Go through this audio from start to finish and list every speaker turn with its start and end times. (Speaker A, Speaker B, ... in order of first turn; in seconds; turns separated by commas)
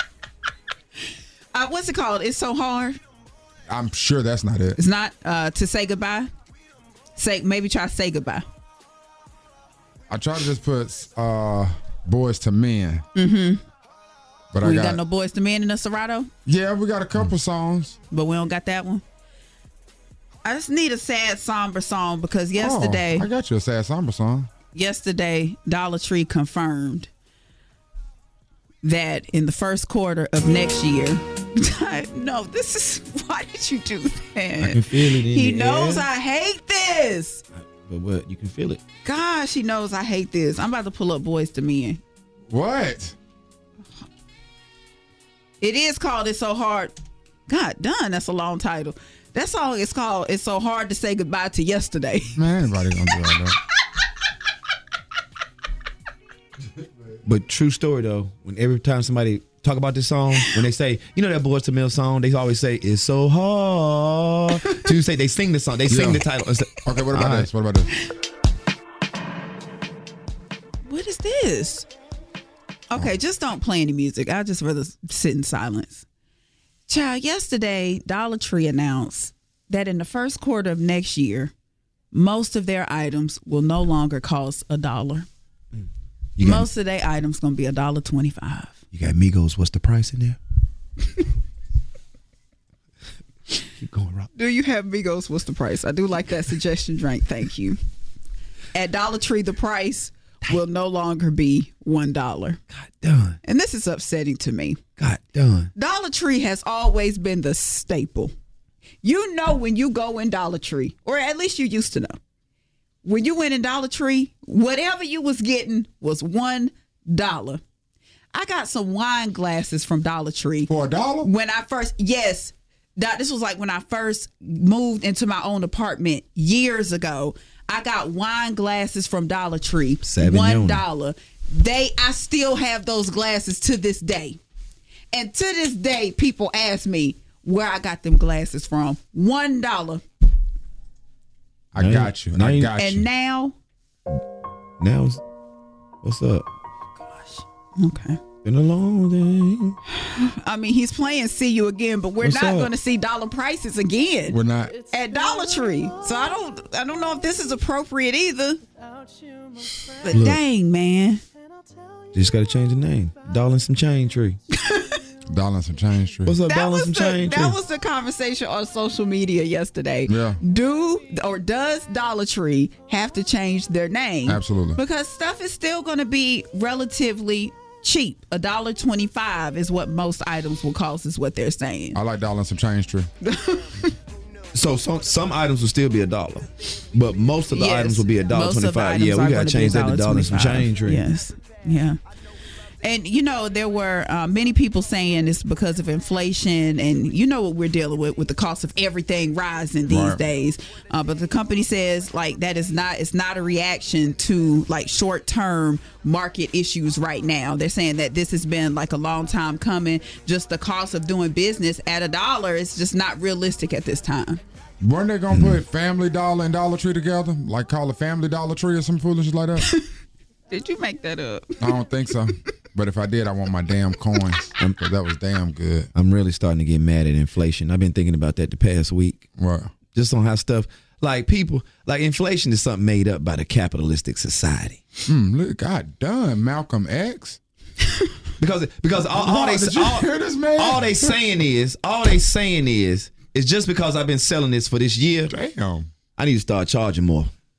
Speaker A: 1.5-3.0, Speaker B: 3.7-4.8, Speaker A: 4.8-6.3, Speaker A: 7.2-8.4, Speaker B: 10.1-13.0, Speaker A: 13.1-13.6, Speaker B: 14.5-15.0, Speaker A: 14.6-16.3, Speaker B: 16.4-18.0, Speaker A: 18.1-19.0, Speaker A: 20.4-23.3, Speaker B: 22.6-24.5, Speaker A: 24.7-27.1, Speaker A: 28.8-37.4, Speaker C: 34.6-36.1, Speaker C: 37.5-38.8, Speaker A: 39.0-42.0, Speaker B: 42.5-43.1, Speaker A: 45.6-46.9, Speaker A: 47.5-52.4, Speaker B: 52.4-53.6, Speaker C: 57.2-67.5, Speaker B: 65.9-66.2, Speaker B: 66.8-67.9, Speaker A: 70.8-71.9, Speaker A: 72.9-76.0, Speaker A: 76.9-81.5, Speaker A: 82.1-85.3, Speaker C: 85.7-86.7, Speaker A: 86.4-88.8, Speaker C: 88.9-90.4, Speaker C: 93.8-94.3, Speaker A: 94.3-97.8, Speaker A: 98.7-102.6, Speaker C: 102.7-103.4, Speaker A: 103.4-104.8, Speaker C: 105.0-105.7, Speaker A: 105.7-108.3, Speaker A: 109.0-112.2, Speaker A: 113.0-117.6, Speaker A: 118.3-120.7, Speaker B: 120.7-121.3, Speaker A: 121.2-134.4, Speaker C: 130.1-130.8, Speaker A: 135.1-140.0, Speaker B: 141.7-143.0, Speaker C: 141.8-142.7, Speaker A: 142.8-143.5, Speaker C: 144.8-145.2, Speaker C: 146.0-146.4, Speaker A: 147.0-148.2, Speaker C: 148.4-149.8, Speaker A: 149.9-158.6, Speaker C: 152.2-152.7, Speaker B: 154.3-154.7, Speaker A: 160.0-161.2, Speaker C: 160.1-160.4, Speaker C: 162.1-164.4, Speaker A: 164.5-165.0, Speaker B: 165.3-166.3, Speaker C: 166.2-167.6, Speaker A: 166.5-182.0, Speaker B: 170.1-170.4, Speaker B: 174.2-174.8, Speaker B: 181.9-183.1, Speaker A: 183.2-183.9, Speaker C: 184.5-191.0, Speaker A: 187.5-192.0, Speaker A: 192.8-214.4, Speaker B: 199.9-200.2, Speaker B: 214.8-219.7, Speaker C: 215.3-215.6, Speaker A: 220.5-221.7, Speaker B: 221.6-225.9, Speaker C: 225.9-229.3, Speaker B: 229.4-229.7, Speaker C: 229.9-234.8, Speaker B: 235.1-237.4, Speaker C: 238.4-245.3, Speaker B: 239.0-241.2, Speaker B: 245.3-245.9, Speaker C: 246.2-247.3